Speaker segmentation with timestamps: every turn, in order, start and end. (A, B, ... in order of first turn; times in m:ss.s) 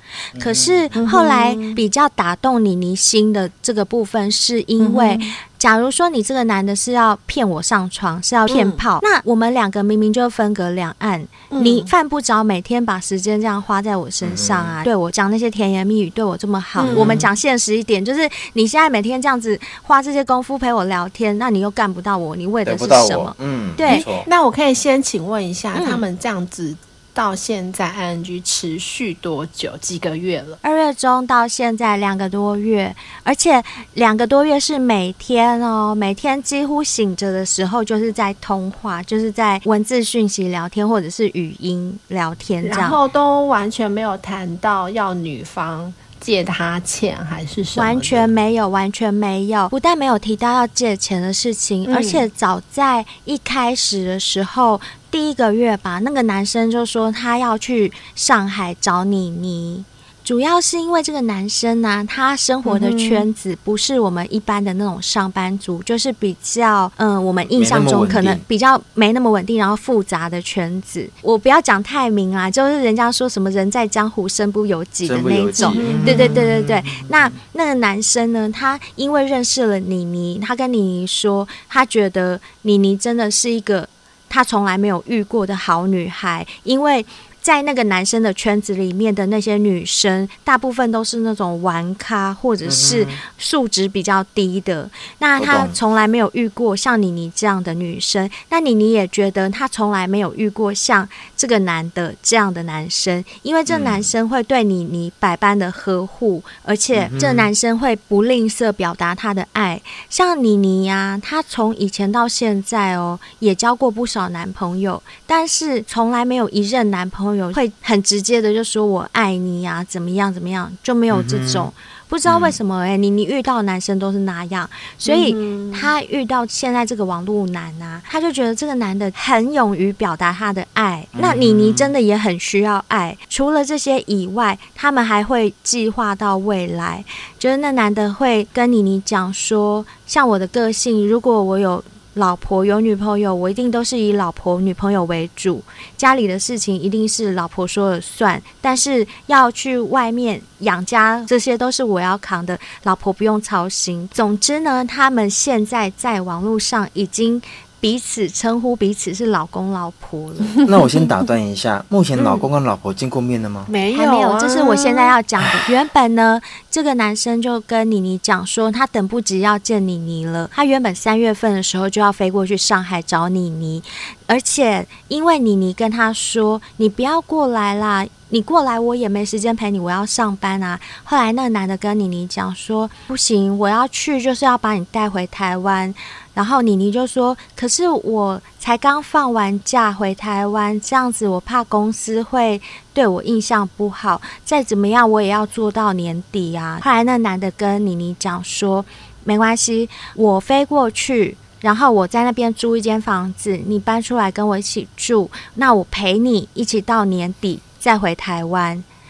0:00.3-0:01.0 A
0:00.4-0:24.1 B
0:01.0-0:01.8 C
0:04.8-0:05.4 C
0:08.5-0:08.8 C
0:11.5-0:11.9 C
0:14.2-0:14.8 A
0:16.8-0:17.2 C
0:16.9-0:17.3 A
0:22.6-0:24.3 A
0:23.9-0:30.6 C
0:25.8-0:26.0 B
0:30.6-0:43.0 B
0:42.6-0:48.3 C
0:47.8-2:40.6 B
0:51.9-0:52.2 C
1:02.6-1:03.2 C
1:07.6-1:08.4 A
1:15.0-1:17.4 A
1:15.6-1:16.4 C
1:32.6-1:33.2 A
1:35.4-1:35.8 A
1:43.7-1:44.1 A
1:47.0-1:47.5 A
2:01.1-2:01.7 A
2:02.2-2:02.6 A
2:05.1-2:05.9 C
2:11.1-2:11.9 A
2:40.6-2:40.8 C
2:40.6-2:43.7 A
2:42.2-2:42.5 C
2:43.7-2:45.1 C
2:43.9-3:28.8 B